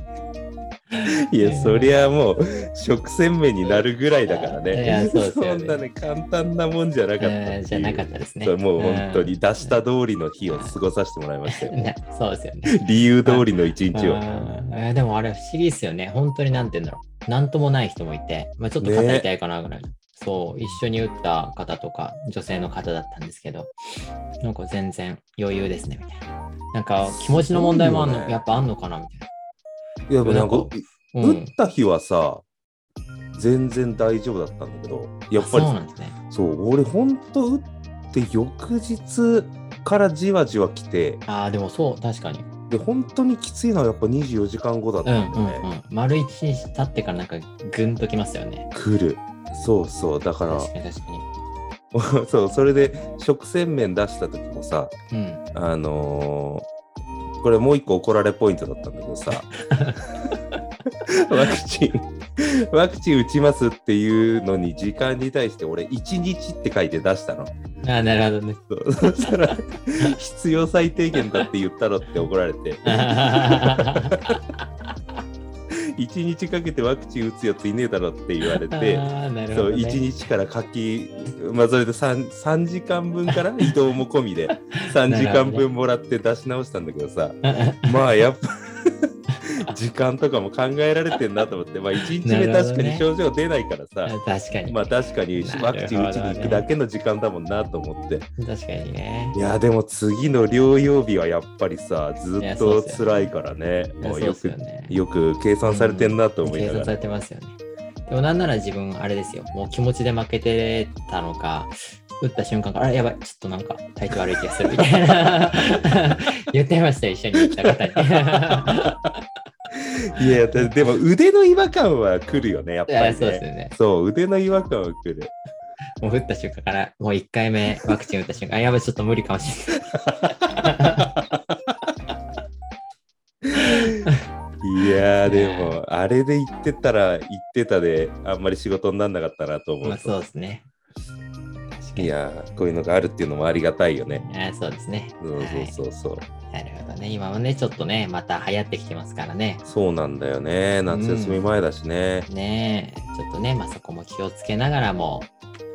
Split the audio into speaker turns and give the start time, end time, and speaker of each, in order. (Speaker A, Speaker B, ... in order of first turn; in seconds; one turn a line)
Speaker A: 0.9-1.9
Speaker B: 1.1-11.9
Speaker A: 4.2-5.8
Speaker A: 7.2-9.7
Speaker A: 11.5-23.7
Speaker B: 12.7-14.2
Speaker B: 18.8-19.3
Speaker A: 24.4-29.3
Speaker B: 27.0-28.4
Speaker B: 30.1-32.4
Speaker A: 30.2-31.5
Speaker B: 33.3-35.8
Speaker A: 35.4-36.1
Speaker B: 36.3-41.2
Speaker A: 41.2-42.5
Speaker B: 42.7-45.6
Speaker A: 45.0-48.7
Speaker B: 48.7-50.7
Speaker A: 50.5-51.2
Speaker B: 51.9-54.9
Speaker A: 55.1-55.4
Speaker B: 55.5-56.7
Speaker B: 57.4-59.5
Speaker A: 59.6-60.0
Speaker B: 61.0-67.5
Speaker A: 67.8-68.6
Speaker B: 68.7-74.4
Speaker A: 72.8-74.4
Speaker B: 75.7-94.1
Speaker A: 78.7-80.0
Speaker A: 84.5-85.7
Speaker A: 87.4-88.1
Speaker A: 92.2-93.1
Speaker A: 94.0-96.7
Speaker B: 94.7-98.3
Speaker A: 98.4-99.4
Speaker B: 99.3-106.9
Speaker A: 102.4-103.3
Speaker A: 104.0-105.0
Speaker A: 105.6-119.2
Speaker B: 117.6-118.8
Speaker B: 119.7-125.3
Speaker A: 120.2-120.9
Speaker A: 122.9-123.7
Speaker A: 126.0-129.9
Speaker B: 130.0-131.4
Speaker A: 130.5-131.1
Speaker A: 133.5-134.1
Speaker B: 133.5-134.0
Speaker B: 134.6-140.1
Speaker A: 135.2-135.8
Speaker A: 139.8-140.6
Speaker A: 141.7-142.1
Speaker B: 141.9-144.2
Speaker A: 144.2-145.8
Speaker B: 145.2-146.2
Speaker A: 146.5-149.6
Speaker B: 149.7-152.3
Speaker A: 150.9-151.5
Speaker A: 152.3-155.3